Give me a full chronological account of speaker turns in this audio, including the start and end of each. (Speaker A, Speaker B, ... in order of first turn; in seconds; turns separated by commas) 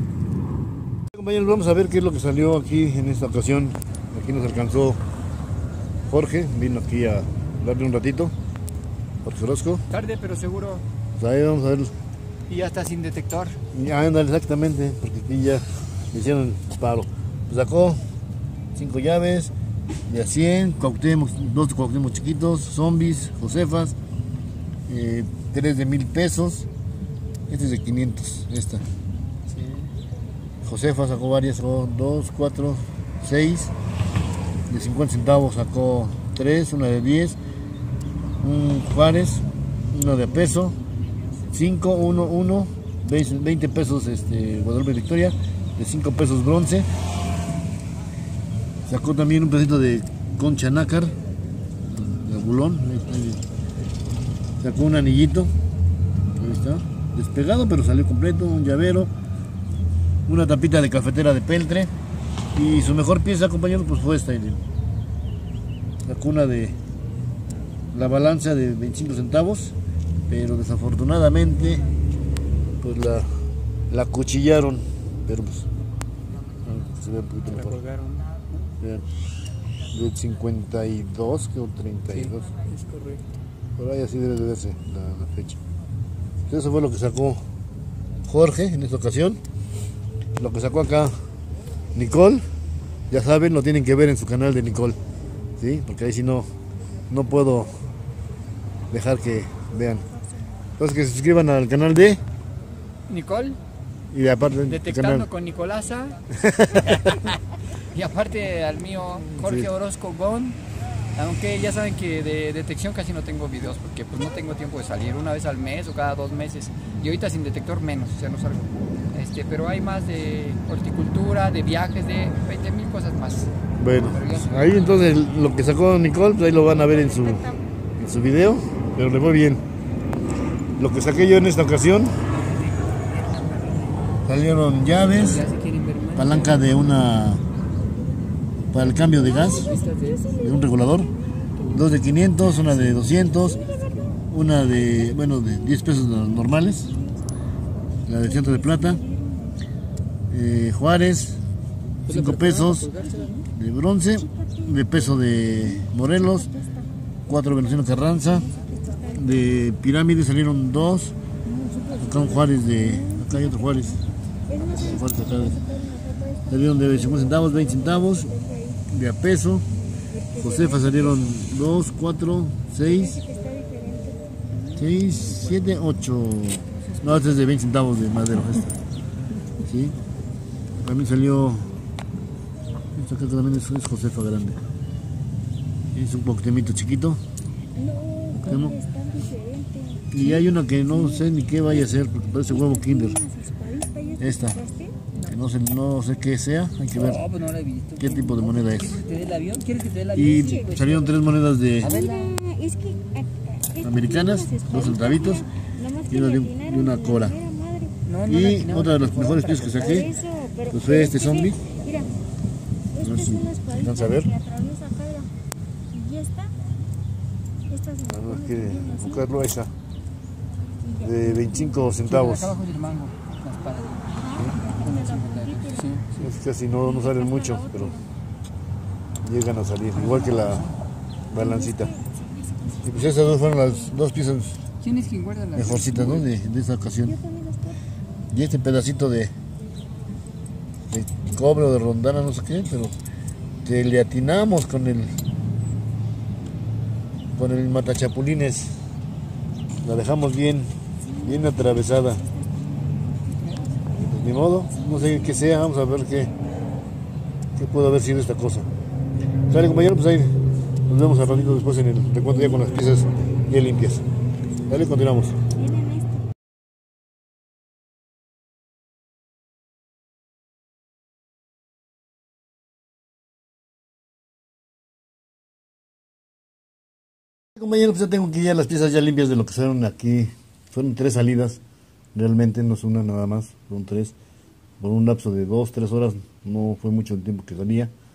Speaker A: 1.1-5.0, Speaker A: 6.1-8.3, Speaker A: 9.2-9.8, Speaker B: 9.9-10.8, Speaker A: 11.1-11.9, Speaker B: 12.5-13.6, Speaker A: 13.7-18.0, Speaker A: 18.7-19.5, Speaker A: 20.1-24.0, Speaker A: 24.9-26.7, Speaker A: 27.5-28.8, Speaker A: 30.6-33.7, Speaker A: 34.7-37.4, Speaker A: 38.4-40.8, Speaker A: 41.5-46.9, Speaker A: 48.9-51.2, Speaker A: 51.9-53.4, Speaker A: 54.6-55.5, Speaker A: 56.4-59.1, Speaker A: 60.3-61.9, Speaker A: 62.5-64.6, Speaker A: 66.1-66.8, Speaker A: 67.9-69.8, Speaker A: 70.3-71.8, Speaker A: 72.8-73.3, Speaker A: 73.9-75.7, Speaker A: 76.7-77.8, Speaker B: 77.5-78.3, Speaker A: 79.9-82.5, Speaker B: 82.2-83.2, Speaker A: 83.8-85.6, Speaker A: 86.5-87.4, Speaker A: 88.2-89.4, Speaker A: 90.4-91.1, Speaker A: 91.9-92.5, Speaker A: 93.1-95.0, Speaker A: 95.6-96.5, Speaker A: 97.1-97.7, Speaker A: 98.9-100.1, Speaker A: 100.8-102.2, Speaker B: 103.1-103.6, Speaker A: 104.1-105.3, Speaker B: 104.6-106.2, Speaker A: 106.4-107.2, Speaker B: 106.9-107.4, Speaker B: 107.9-110.6, Speaker A: 109.3-109.7, Speaker B: 111.1-123.5, Speaker A: 123.8-129.6, Speaker B: 124.1-124.6, Speaker A: 130.8-132.2, Speaker B: 133.3-133.6, Speaker A: 134.2-135.5, Speaker B: 135.0-136.6, Speaker A: 136.1-137.4, Speaker A: 138.7-139.8, Speaker C: 139.6-140.6, Speaker B: 139.7-140.2, Speaker A: 140.4-141.1, Speaker A: 141.7-143.7, Speaker C: 143.6-144.1, Speaker A: 144.3-146.9, Speaker A: 148.1-149.0, Speaker C: 148.4-149.5, Speaker A: 150.3-151.4, Speaker B: 152.1-153.4, Speaker A: 152.1-156.5, Speaker C: 156.5-156.9, Speaker A: 157.3-158.5, Speaker C: 158.5-159.4, Speaker A: 159.1-161.2, Speaker C: 161.5-163.7, Speaker A: 162.0-164.0, Speaker C: 164.5-168.8, Speaker A: 164.7-165.6, Speaker A: 166.5-168.4, Speaker A: 168.9-169.7, Speaker C: 170.1-171.4, Speaker A: 170.4-173.2, Speaker C: 172.8-174.2, Speaker A: 174.8-178.8, Speaker A: 179.6-180.0, Speaker A: 180.8-181.7, Speaker A: 182.9-184.6, Speaker A: 185.9-187.2, Speaker C: 187.8-190.2, Speaker A: 188.4-188.8, Speaker A: 190.1-193.2, Speaker C: 192.5-195.1, Speaker A: 194.2-194.6, Speaker A: 195.2-197.4, Speaker B: 197.0-198.0, Speaker A: 198.0-199.1, Speaker B: 198.9-200.8, Speaker A: 200.1-202.0, Speaker B: 201.8-202.4, Speaker C: 201.8-208.0, Speaker A: 203.8-205.5, Speaker A: 206.1-207.4, Speaker B: 208.1-210.1, Speaker A: 208.3-210.2, Speaker C: 209.8-212.1, Speaker A: 210.7-211.6, Speaker C: 213.0-215.3, Speaker A: 213.0-214.3, Speaker C: 215.9-216.6, Speaker C: 217.7-219.3, Speaker A: 218.1-219.7, Speaker C: 220.8-221.9, Speaker A: 221.0-222.6, Speaker B: 222.1-226.1, Speaker C: 224.1-226.0, Speaker A: 226.2-228.0, Speaker C: 226.8-228.1, Speaker A: 229.2-230.7, Speaker B: 230.1-230.7, Speaker A: 231.3-232.0, Speaker C: 231.3-233.9, Speaker A: 232.8-234.6, Speaker B: 234.8-236.3, Speaker A: 235.5-237.2, Speaker C: 237.1-237.8, Speaker A: 238.3-239.3, Speaker A: 240.9-242.9, Speaker A: 243.6-245.2, Speaker A: 247.3-248.8, Speaker A: 249.8-252.2, Speaker B: 253.4-253.7, Speaker A: 253.9-256.3, Speaker A: 257.6-258.7, Speaker A: 259.5-264.1, Speaker A: 264.7-265.4, Speaker C: 265.7-266.0, Speaker A: 277.6-281.6, Speaker A: 282.1-284.1, Speaker A: 284.8-287.9